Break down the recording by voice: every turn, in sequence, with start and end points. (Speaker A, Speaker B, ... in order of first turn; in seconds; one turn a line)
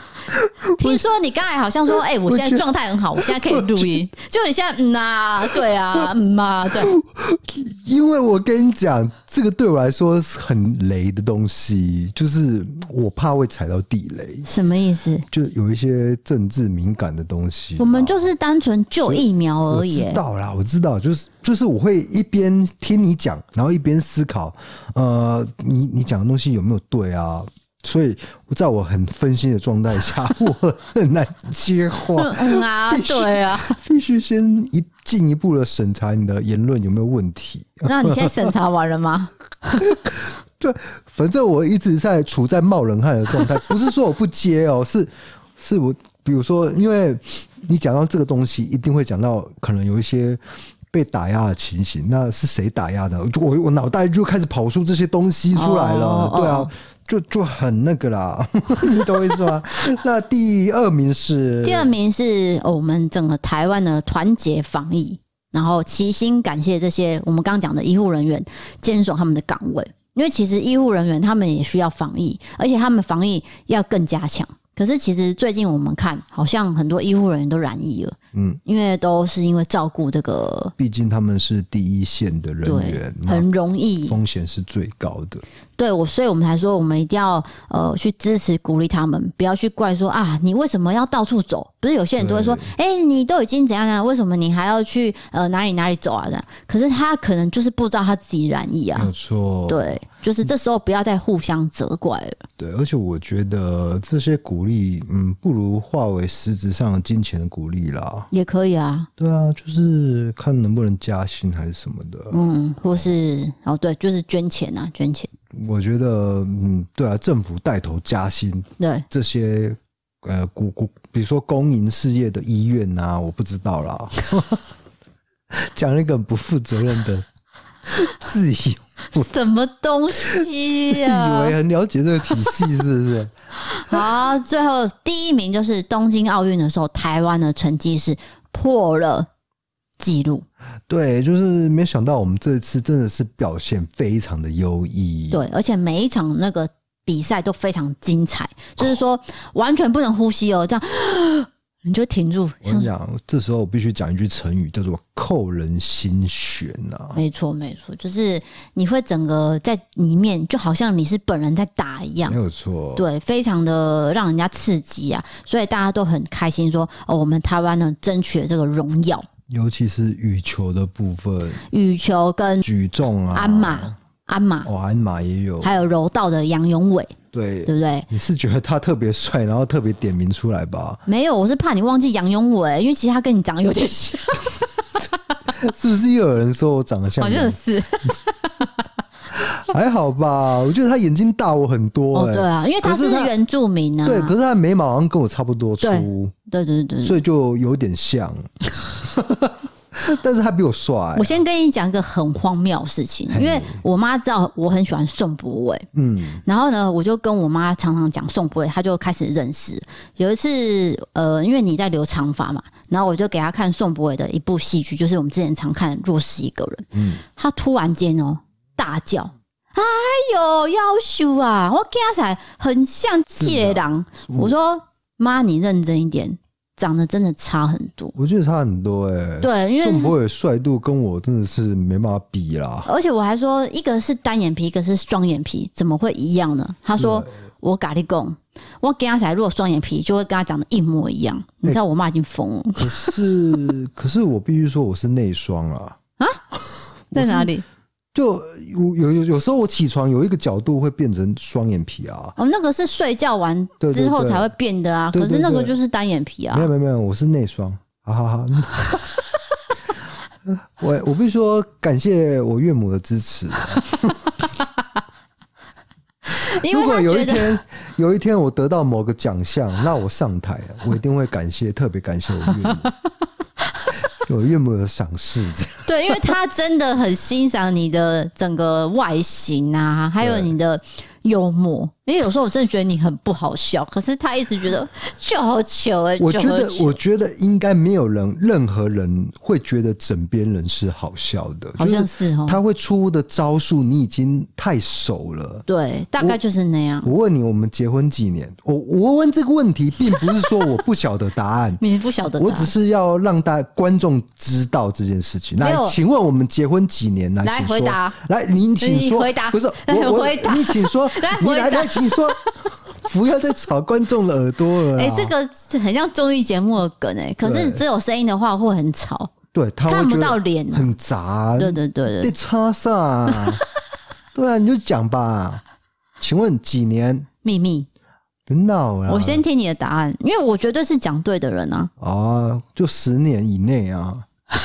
Speaker A: 0.3-1.0
Speaker B: 0.7-7.0
Speaker A: 2.3-2.6
Speaker A: 3.2-4.0
Speaker A: 5.5-6.1
Speaker A: 6.7-14.5
Speaker B: 14.5-15.3
Speaker A: 15.3-18.2
Speaker B: 17.8-20.2
Speaker A: 19.0-38.5
Speaker B: 32.2-33.8
Speaker B: 37.9-39.9
Speaker A: 39.8-61.9
Speaker B: 55.5-56.7
Speaker B: 61.6-80.7
Speaker A: 78.3-78.6
Speaker A: 80.8-83.5
Speaker B: 82.7-84.2
Speaker A: 84.1-85.4
Speaker B: 85.8-99.1
Speaker A: 92.2-92.7
Speaker A: 99.0-100.0
Speaker B: 99.7-102.4
Speaker A: 102.6-108.3
Speaker B: 108.3-109.1
Speaker A: 109.2-112.4
Speaker B: 112.3-115.3
Speaker A: 115.5-124.6
Speaker B: 118.8-119.0
Speaker A: 125.5-127.3
Speaker A: 127.9-129.3
Speaker B: 129.1-131.6
Speaker A: 130.2-133.3
Speaker B: 133.7-139.3
Speaker B: 140.0-140.5
Speaker A: 140.9-145.4
Speaker B: 145.3-152.9
Speaker A: 152.7-157.2
Speaker B: 157.2-162.4
Speaker A: 162.3-163.1
Speaker B: 163.0-169.3
Speaker A: 169.5-171.6
Speaker B: 171.7-172.6
Speaker A: 172.6-174.0
Speaker B: 173.3-174.7
Speaker A: 174.7-175.8
Speaker B: 175.6-178.1
Speaker A: 177.3-181.0
Speaker B: 181.1-185.1
Speaker A: 185.5-187.6
Speaker B: 187.2-188.7
Speaker A: 189.3-193.3
Speaker B: 192.1-194.3
Speaker A: 194.1-196.3
Speaker B: 195.8-197.2
Speaker A: 197.0-198.5
Speaker A: 199.0-201.4
Speaker B: 201.2-205.9
Speaker A: 203.3-203.8
Speaker A: 205.9-206.4
Speaker B: 206.5-228.2
Speaker A: 216.9-217.2
Speaker A: 223.4-224.5
Speaker A: 228.2-232.9
Speaker B: 229.4-230.1
Speaker B: 232.8-243.2
Speaker A: 237.0-237.3
Speaker A: 242.8-246.0
Speaker A: 247.1-247.5
Speaker B: 247.1-247.7
Speaker A: 248.1-252.4
Speaker B: 252.4-256.7
Speaker A: 253.8-254.5
Speaker A: 255.1-255.8
Speaker A: 256.5-259.0
Speaker A: 260.5-264.4
Speaker B: 266.3-267.6
Speaker A: 266.7-272.9
Speaker A: 274.1-276.4
Speaker B: 275.9-287.0
Speaker A: 280.2-280.5
Speaker A: 286.2-295.7
Speaker B: 291.8-292.6
Speaker B: 295.7-297.1
Speaker A: 297.0-301.8
Speaker B: 301.8-302.7
Speaker A: 302.4-315.3
Speaker B: 305.6-306.0
Speaker B: 307.4-308.2
Speaker B: 308.8-312.5
Speaker B: 314.9-319.3
Speaker A: 317.4-317.8
Speaker A: 319.5-323.6
Speaker B: 319.9-320.9
Speaker B: 321.6-322.3
Speaker A: 324.4-325.6
Speaker A: 326.2-327.3
Speaker B: 327.4-327.9
Speaker A: 328.5-329.4
Speaker B: 329.1-331.9
Speaker A: 332.0-334.3